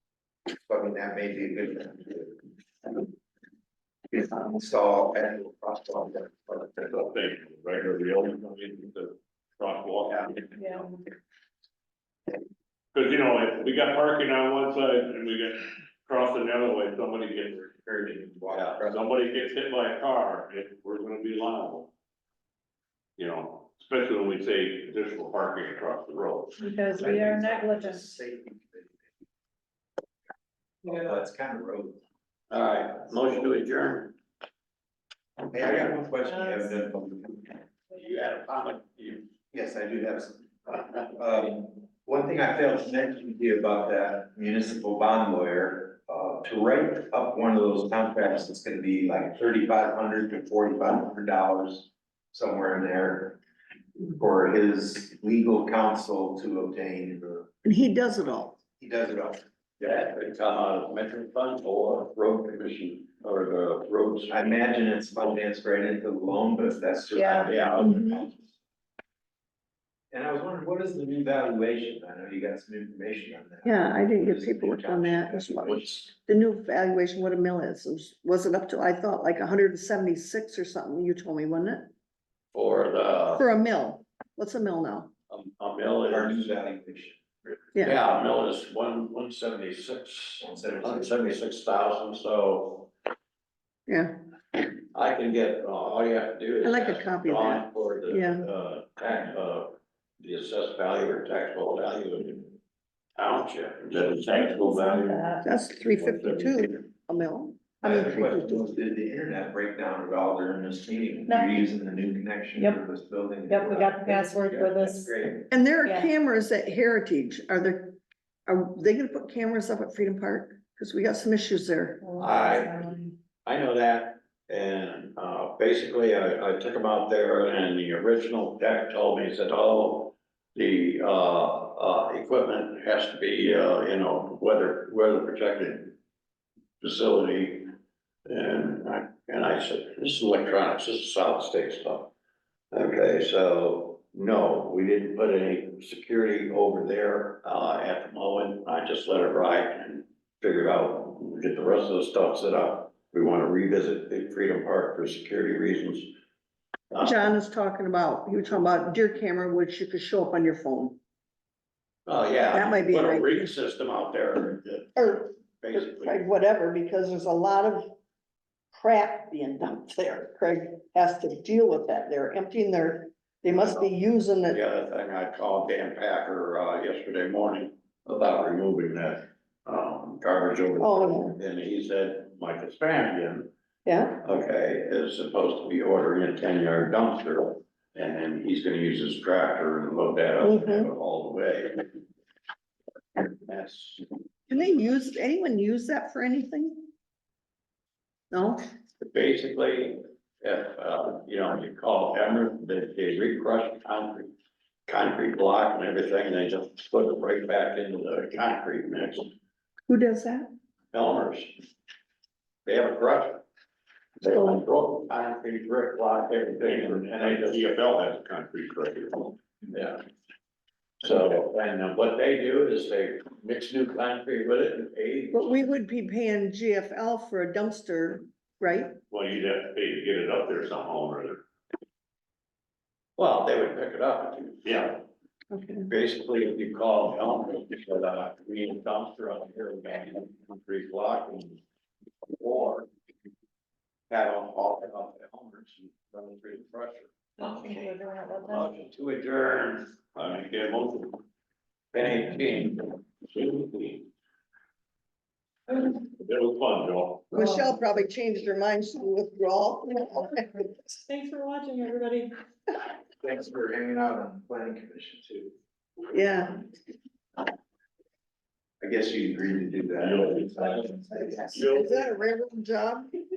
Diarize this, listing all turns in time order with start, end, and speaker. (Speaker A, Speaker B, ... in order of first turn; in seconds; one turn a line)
Speaker A: 0.7-2.4
Speaker A: 4.1-6.8
Speaker B: 6.8-10.6
Speaker C: 10.6-10.9
Speaker B: 12.9-17.7
Speaker A: 17.6-19.2
Speaker D: 18.5-18.9
Speaker B: 18.8-21.9
Speaker B: 23.2-26.6
Speaker C: 26.6-28.1
Speaker A: 26.9-29.0
Speaker A: 30.9-32.0
Speaker D: 32.5-34.2
Speaker A: 35.5-37.6
Speaker C: 36.2-36.8
Speaker D: 37.9-39.3
Speaker A: 39.5-53.4
Speaker A: 54.0-57.5
Speaker E: 57.6-58.6
Speaker A: 58.8-59.4
Speaker D: 59.8-64.4
Speaker A: 64.3-68.5
Speaker C: 67.1-67.5
Speaker D: 67.3-68.1
Speaker E: 67.8-68.1
Speaker A: 70.1-76.1
Speaker E: 73.6-81.9
Speaker D: 82.5-83.5
Speaker E: 83.3-85.1
Speaker D: 85.3-86.5
Speaker A: 86.1-87.2
Speaker D: 87.8-92.9
Speaker A: 90.4-91.4
Speaker E: 93.9-94.1
Speaker D: 94.9-102.5
Speaker E: 96.6-98.5
Speaker D: 103.2-105.2
Speaker C: 104.3-105.5
Speaker E: 105.4-108.6
Speaker D: 106.0-106.7
Speaker A: 107.8-115.5
Speaker C: 111.3-111.6
Speaker C: 113.5-115.2
Speaker E: 115.5-122.0
Speaker C: 115.8-116.1
Speaker C: 122.0-123.1
Speaker D: 122.2-135.9
Speaker D: 136.8-137.7
Speaker D: 138.3-142.1
Speaker D: 142.7-156.1
Speaker D: 156.9-157.3
Speaker E: 157.0-161.0
Speaker D: 162.1-166.2
Speaker E: 162.5-163.3
Speaker E: 165.0-167.9
Speaker E: 168.7-174.6
Speaker D: 173.5-173.9
Speaker D: 174.5-183.5
Speaker E: 180.8-181.4
Speaker E: 183.9-184.2
Speaker D: 184.1-191.9
Speaker E: 190.4-190.9
Speaker D: 193.2-194.1
Speaker E: 194.5-196.9
Speaker E: 198.3-198.6
Speaker D: 199.0-204.3
Speaker D: 204.9-209.3
Speaker E: 209.9-210.5
Speaker D: 210.9-211.5
Speaker D: 212.7-213.4
Speaker D: 214.2-217.7
Speaker E: 214.3-214.6
Speaker B: 216.6-219.4
Speaker D: 219.7-220.0
Speaker D: 221.0-225.6
Speaker E: 225.3-228.9
Speaker B: 229.1-231.4
Speaker D: 233.2-235.0
Speaker B: 234.6-234.9
Speaker E: 235.5-235.9
Speaker D: 235.9-241.6
Speaker D: 242.3-242.9
Speaker D: 244.1-251.2
Speaker C: 247.4-248.8
Speaker D: 251.9-254.1
Speaker B: 256.2-257.3
Speaker E: 257.3-260.6
Speaker C: 257.3-257.8
Speaker C: 260.3-262.3
Speaker A: 263.2-265.5
Speaker E: 266.1-266.6
Speaker A: 268.8-271.6
Speaker B: 270.0-272.1
Speaker E: 271.2-273.2